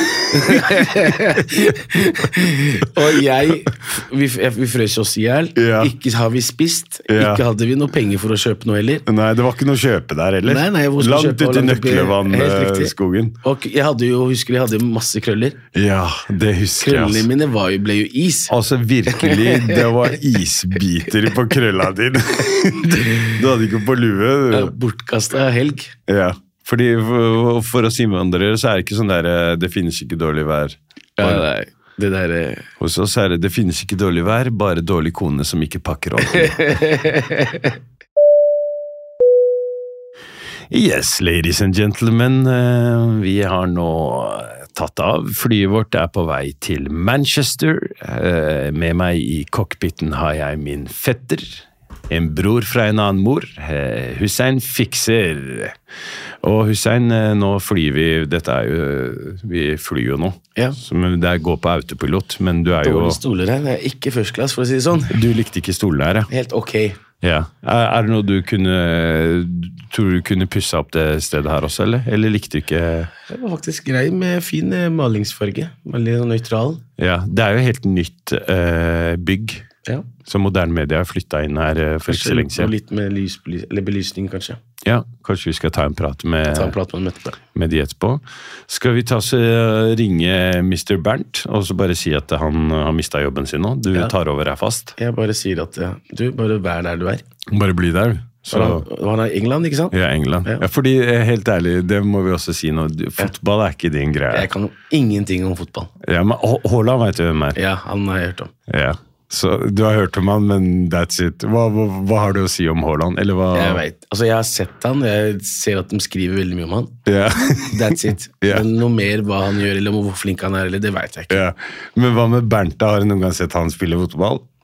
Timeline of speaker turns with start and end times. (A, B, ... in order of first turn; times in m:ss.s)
0:00.2-0:09.0 A
0:00.4-0:00.8 B
0:05.6-0:05.9 B
0:07.1-0:07.4 B
0:09.1-0:13.4 B
0:10.4-0:15.6 A
0:15.7-0:17.3 B
0:16.8-0:18.5 A
0:18.5-0:24.7 B
0:19.1-0:19.9 A
0:23.0-0:23.3 A
0:24.5-0:25.9 A
0:26.1-0:31.4 B
0:31.2-0:32.7 A
0:32.8-0:36.8 B
0:36.5-0:37.7 A
0:40.7-0:55.8 B
0:56.4-1:03.2 B
1:02.8-1:05.2 A
1:05.1-1:06.3 B
1:06.3-1:07.0 A
1:07.2-1:13.1 B
1:13.3-1:16.8 A
1:17.0-1:19.6 B
1:20.3-1:22.7 B
1:22.1-1:24.6 A
1:24.8-1:26.8 B
1:26.5-1:27.4 A
1:27.5-1:34.9 B
1:35.0-1:37.2 A
1:37.5-1:38.8 B
1:38.5-1:40.6 A
1:39.9-1:44.5 B
1:44.3-1:45.9 A
1:46.0-1:47.6 B
1:47.6-1:48.5 A
1:48.7-1:53.8 B
1:53.5-2:01.4 A
1:57.1-1:58.7 B
2:01.3-2:04.4 B